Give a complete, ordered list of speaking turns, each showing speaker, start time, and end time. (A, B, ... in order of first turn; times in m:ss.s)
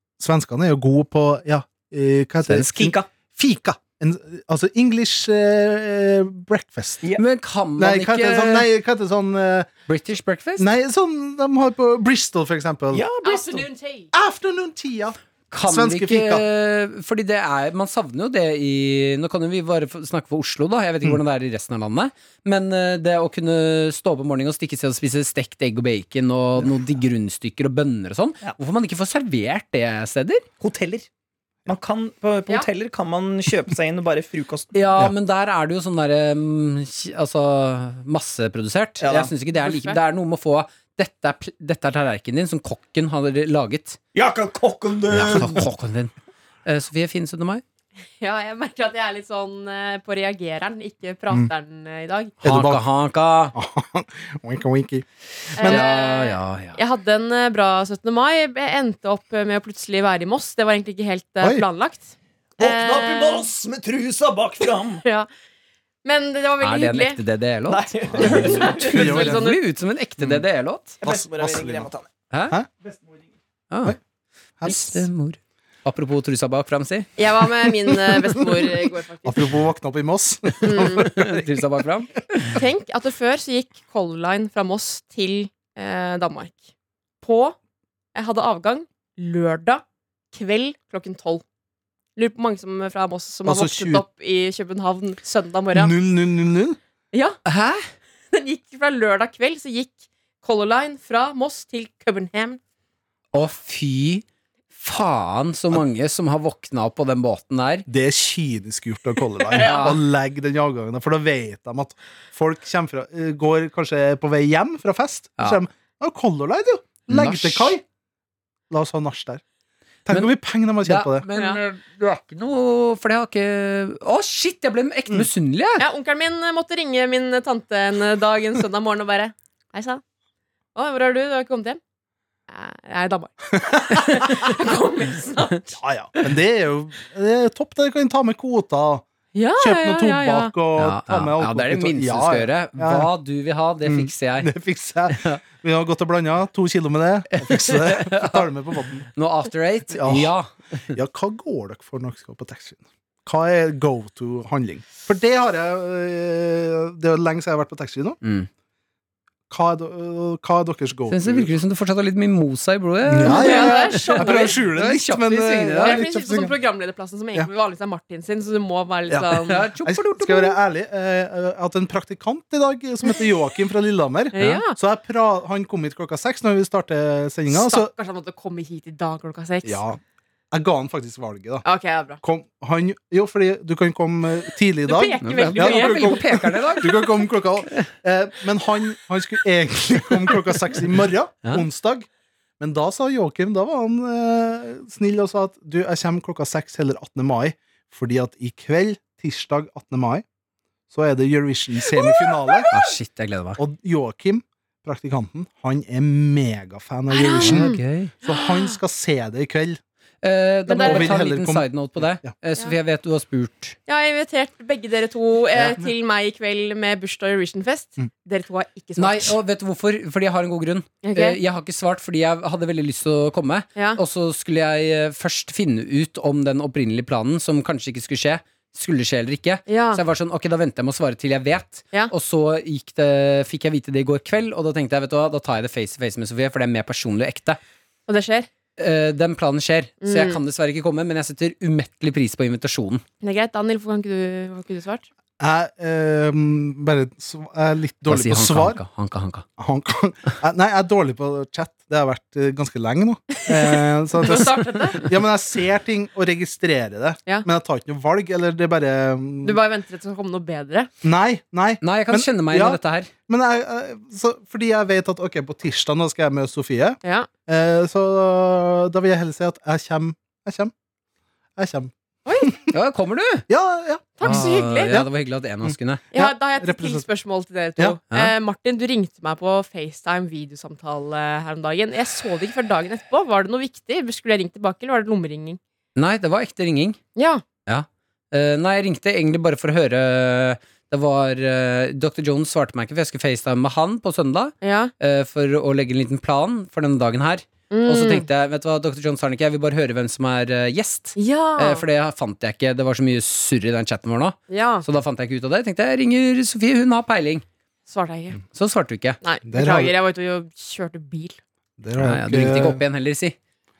0:00.2-0:07.0 A
0:02.5-0:02.9 B
0:02.8-0:03.1 C
0:07.2-0:08.7 B
0:07.8-0:09.7 A
0:09.9-0:10.7 B
0:10.6-0:13.0 A
0:12.9-0:13.7 C
0:13.2-0:14.1 D
0:14.1-0:16.4 A
0:15.5-0:30.4 B
0:30.6-0:31.1 C
0:31.7-0:34.7 C
0:34.7-0:44.0 B
0:39.0-0:39.3 C
0:39.5-0:40.0 D
0:44.1-0:45.6 C
0:45.1-0:46.1 B
0:46.7-0:47.6 B
0:48.2-0:52.3 D
0:52.4-0:52.8 A
0:52.4-0:53.5 B
0:53.5-0:55.9 A
0:55.6-0:56.8 B
0:55.6-1:03.5 D
1:02.6-1:05.0 C
1:05.0-1:05.3 D
1:06.0-1:07.2 D
1:06.6-1:11.0 B
1:07.7-1:09.2 C
1:08.1-1:09.5 A
1:08.2-1:09.6 D
1:10.2-1:10.4 A
1:11.0-1:11.9 A
1:11.0-1:12.1 C
1:12.3-1:12.6 B
1:12.8-1:13.3 C
1:13.7-1:14.0 B
1:14.6-1:15.1 A
1:14.6-1:17.1 B
1:17.2-1:19.4 D
1:19.2-1:21.5 A
1:20.6-1:21.1 D
1:21.0-1:22.6 B
1:22.5-1:26.7 D
1:27.2-1:27.6 D
1:28.2-1:31.4 D
1:32.2-1:35.9 D
1:33.4-1:34.0 A
1:35.7-1:36.8 A
1:37.1-1:37.4 D
1:37.5-1:37.9 B
1:38.3-1:42.6 D
1:43.3-1:44.2 B
1:44.8-1:47.9 B
1:47.9-1:57.8 A
1:49.6-1:49.8 D
1:49.6-1:50.0 B
1:57.1-1:57.8 B
1:58.7-1:59.4 A
2:00.1-2:01.2 A
2:00.8-2:05.9 B
2:05.8-2:10.0 D
2:10.8-2:11.8 D
2:12.5-2:15.8 D
2:15.8-2:23.1 A
2:19.4-2:20.5 D
2:20.8-2:24.5 B
2:23.8-2:29.1 A
2:25.1-2:25.4 B
2:27.3-2:28.5 B
2:29.1-2:31.0 B
2:29.9-2:30.3 A
2:30.9-2:38.2 A
2:38.2-2:38.5 B
2:39.5-2:41.5 A
2:41.1-2:46.0 B
2:43.0-2:46.6 A
2:43.2-2:44.6 D
2:45.8-2:49.6 D
2:49.4-2:50.6 B
2:49.8-2:57.9 A
2:54.3-2:54.8 D
2:54.4-2:54.6 B
2:57.5-2:59.8 D
2:59.6-3:00.0 A
3:00.5-3:01.6 A
3:01.6-3:02.2 D
3:02.2-3:12.1 A
3:04.8-3:06.8 D
3:05.2-3:07.9 B
3:12.6-3:20.2 A
3:20.9-3:22.7 A
3:22.0-3:22.7 D
3:22.7-3:23.6 B
3:23.6-3:29.8 A
3:27.1-3:28.7 D
3:27.4-3:28.1 B
3:30.2-3:33.8 B
3:30.7-3:31.2 D
3:30.8-3:32.3 A
3:33.9-3:39.4 D
3:35.6-3:35.9 A
3:39.0-3:57.6 B
3:41.0-3:41.4 D
3:49.7-3:50.0 D
3:58.1-3:58.5 D
3:58.8-4:03.0 B
4:00.0-4:00.4 D
4:03.2-4:05.1 D
4:05.4-4:08.8 A
4:08.1-4:09.5 B
4:09.6-4:19.6 A
4:13.5-4:15.0 D
4:19.4-4:20.9 D
4:21.0-4:30.7 A
4:21.8-4:23.1 B
4:27.0-4:27.3 D
4:31.6-4:32.7 A
4:32.2-4:32.5 D
4:32.7-4:33.5 B
4:33.5-4:35.1 A
4:34.2-4:35.0 D
4:34.2-4:36.0 B
4:35.6-4:37.1 A
4:36.1-4:45.6 D
4:46.0-4:47.0 B
4:47.2-4:47.4 D
4:47.7-5:07.4 B
4:54.6-4:54.9 D
4:57.7-4:58.3 D
5:01.2-5:01.8 D
5:04.5-5:04.8 D
5:07.9-5:08.4 D
5:08.5-5:09.2 B
5:09.2-5:11.4 D
5:09.5-5:10.0 A
5:11.8-5:12.8 A
5:12.0-5:13.4 B